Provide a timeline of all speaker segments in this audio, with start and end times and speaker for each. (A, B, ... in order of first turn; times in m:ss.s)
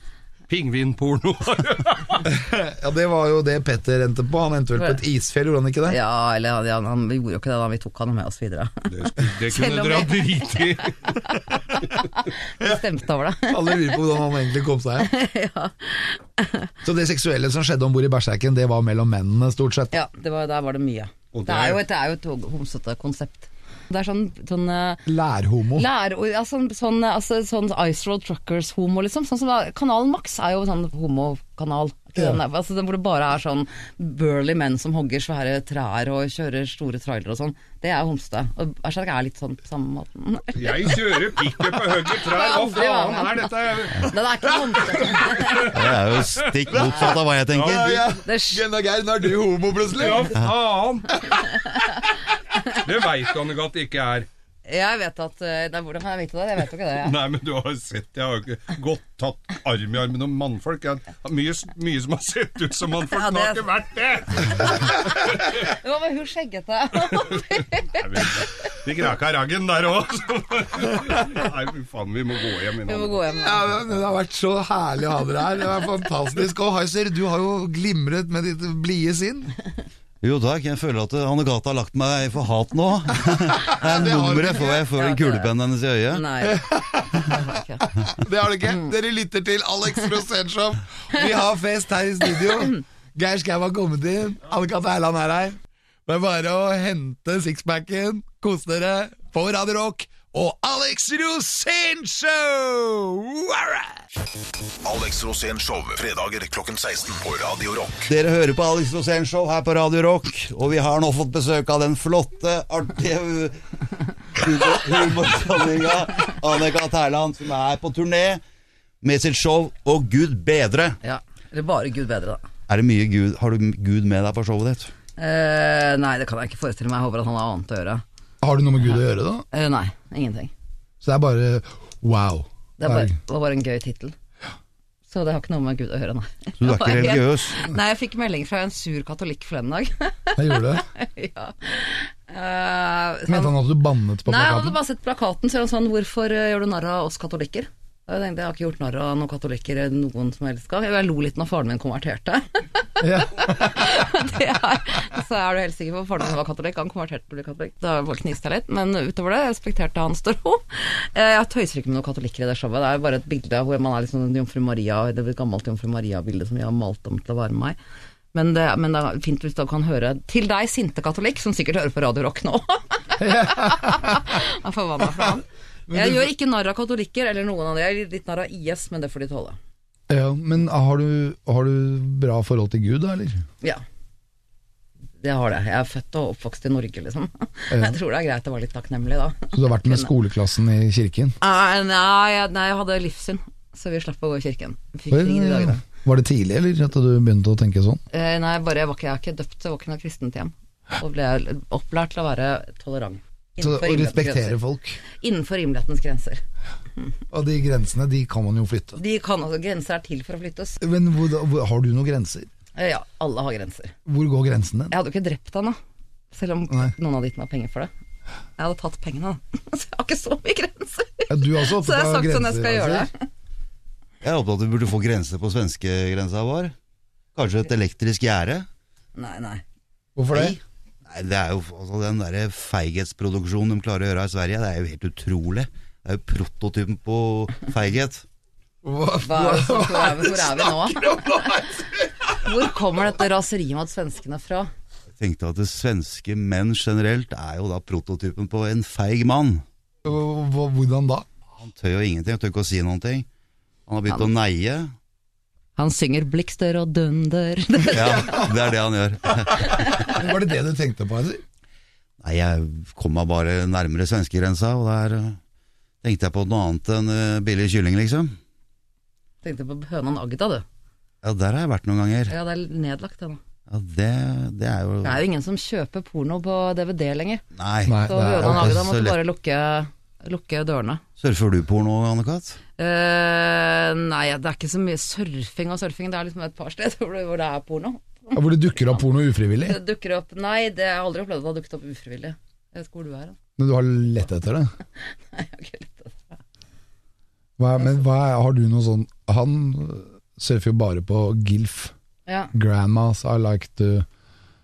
0:00.5-0:02.2 A
0:02.2-0:06.0 B
0:05.8-0:10.6 C
0:08.9-0:11.2 A
0:11.3-0:14.0 C
0:13.5-0:15.1 B
0:15.0-0:16.7 C
0:16.8-0:20.0 B
0:19.9-0:25.1 C
0:21.3-0:21.8 A
0:25.0-0:25.9 B
0:25.7-0:41.0 C
0:40.5-0:44.1 A
0:42.0-0:45.8 C
0:44.9-0:47.0 A
0:45.7-0:48.0 D
0:47.5-0:48.0 A
0:47.6-0:50.4 B
0:48.2-0:48.6 C
0:49.9-0:51.3 A
0:52.7-0:54.3 A
0:54.6-0:57.1 C
0:57.0-1:05.6 A
1:03.1-1:03.7 C
1:05.5-1:08.3 C
1:07.9-1:13.2 A
1:12.9-1:13.7 C
1:13.3-1:19.5 B
1:20.2-1:26.2 D
1:23.6-1:24.8 B
1:24.7-1:25.5 C
1:26.1-1:27.9 C
1:26.4-1:44.0 B
1:28.6-1:28.9 C
1:32.4-1:32.8 C
1:44.8-1:48.1 E
1:48.1-1:53.6 D
1:54.3-1:58.4 D
1:59.0-2:01.0 D
2:01.0-2:02.4 C
2:02.7-2:04.9 D
2:05.2-2:08.0 C
2:08.4-2:09.4 B
2:09.5-2:10.5 C
2:11.0-2:13.1 B
2:12.8-2:14.1 C
2:15.1-2:23.5 C
2:16.6-2:17.6 D
2:20.4-2:20.8 B
2:23.3-2:24.8 B
2:24.2-2:47.8 C
2:33.0-2:33.9 B
2:48.3-2:59.6 C
2:53.2-2:54.3 B
2:55.9-2:56.3 B
3:00.1-3:03.4 B
3:05.2-3:10.1 C
3:07.7-3:08.0 B
3:09.5-3:11.4 B
3:11.4-3:15.8 C
3:15.1-3:18.0 B
3:18.1-3:24.6 C
3:23.6-3:25.0 B
3:25.2-3:26.4 C
3:27.3-3:29.0 B
3:29.0-3:30.8 C
3:30.8-3:32.5 B
3:32.7-3:33.9 C
3:34.0-3:34.9 B
3:34.9-3:35.8 C
3:36.3-3:37.9 C
3:38.6-3:43.2 C
3:41.3-3:43.1 B
3:44.2-3:46.7 D
3:47.3-3:48.7 D
3:49.2-3:49.6 C
3:50.2-3:50.6 B
3:50.3-3:58.2 D
3:58.8-4:02.5 B
3:59.2-4:01.7 C
4:02.4-4:04.7 C
4:05.2-4:09.6 D
4:10.0-4:11.2 B
4:11.6-4:13.2 D
4:13.9-4:14.9 D
4:15.8-4:18.3 C
4:17.9-4:20.0 D
4:17.9-4:18.7 B
4:19.3-4:21.4 B
4:22.2-4:25.4 D
4:26.0-4:28.4 D
4:29.4-4:30.6 C
4:31.2-4:32.3 D
4:32.3-4:33.4 C
4:33.7-4:35.2 D
4:35.0-4:37.4 C
4:37.6-4:39.2 D
4:37.8-4:38.8 B
4:38.0-4:41.0 C
4:41.2-4:42.6 D
4:42.8-4:49.0 C
4:48.3-4:49.8 B
4:49.6-4:53.4 C
4:53.6-4:54.7 B
4:55.1-4:56.4 C
4:57.6-5:01.9 B
5:02.2-5:02.5 C
5:02.5-5:04.0 B